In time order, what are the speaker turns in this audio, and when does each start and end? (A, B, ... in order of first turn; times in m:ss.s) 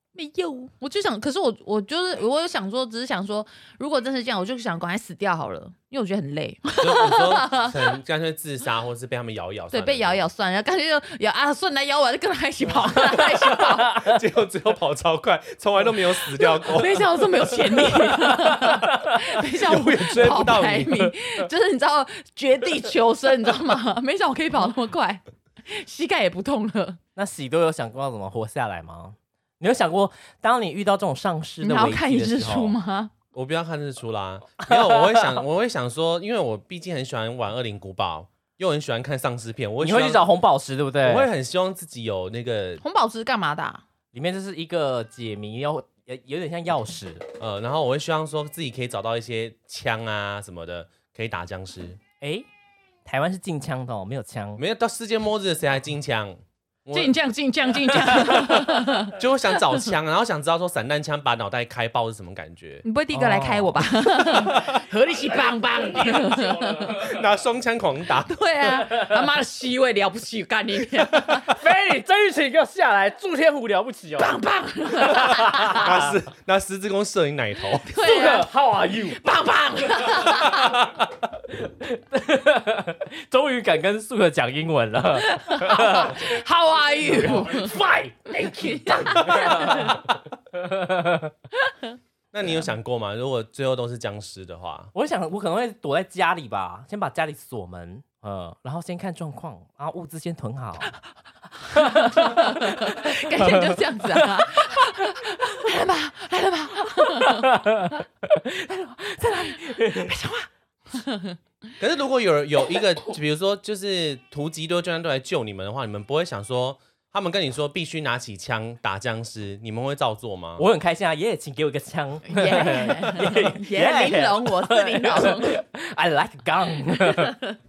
0:00.1-0:07.9 A
0:06.8-0:10.3 B
0:09.7-0:14.0 A
0:13.2-0:17.1 B
0:16.3-0:27.0 A
0:18.2-0:19.2 C
0:19.5-0:21.1 B
0:27.2-0:32.7 C
0:31.6-0:33.1 A
0:33.3-0:40.2 B
0:34.6-0:35.4 C
0:39.8-0:41.3 C
0:41.0-0:42.8 B
0:42.8-0:43.8 A
0:44.1-0:47.2 C
0:47.4-0:52.0 B
0:52.2-0:52.4 C
0:53.0-0:54.6 C
0:54.6-0:57.1 B
0:56.9-0:59.9 A
0:58.0-1:02.8 B
1:02.8-1:07.0 A
1:03.1-1:03.9 C
1:04.5-1:04.8 B
1:06.1-1:06.9 C
1:06.9-1:08.4 B
1:08.2-1:11.5 A
1:11.5-1:14.4 C
1:14.2-1:15.9 A
1:15.0-1:16.1 C
1:15.7-1:17.9 B
1:17.8-1:18.5 A
1:18.0-1:19.2 C
1:19.1-1:20.8 A
1:20.5-1:21.0 B
1:21.4-1:26.3 C
1:25.2-1:27.8 A
1:27.1-1:31.3 C
1:28.3-1:30.0 A
1:32.3-1:34.9 B
1:34.9-1:40.9 C
1:41.6-1:47.6 A
1:41.7-1:44.7 C
1:47.0-1:50.1 C
1:49.7-1:51.4 A
1:51.8-2:00.6 B
2:00.6-2:07.4 C
2:02.3-2:05.6 A
2:07.1-2:07.4 A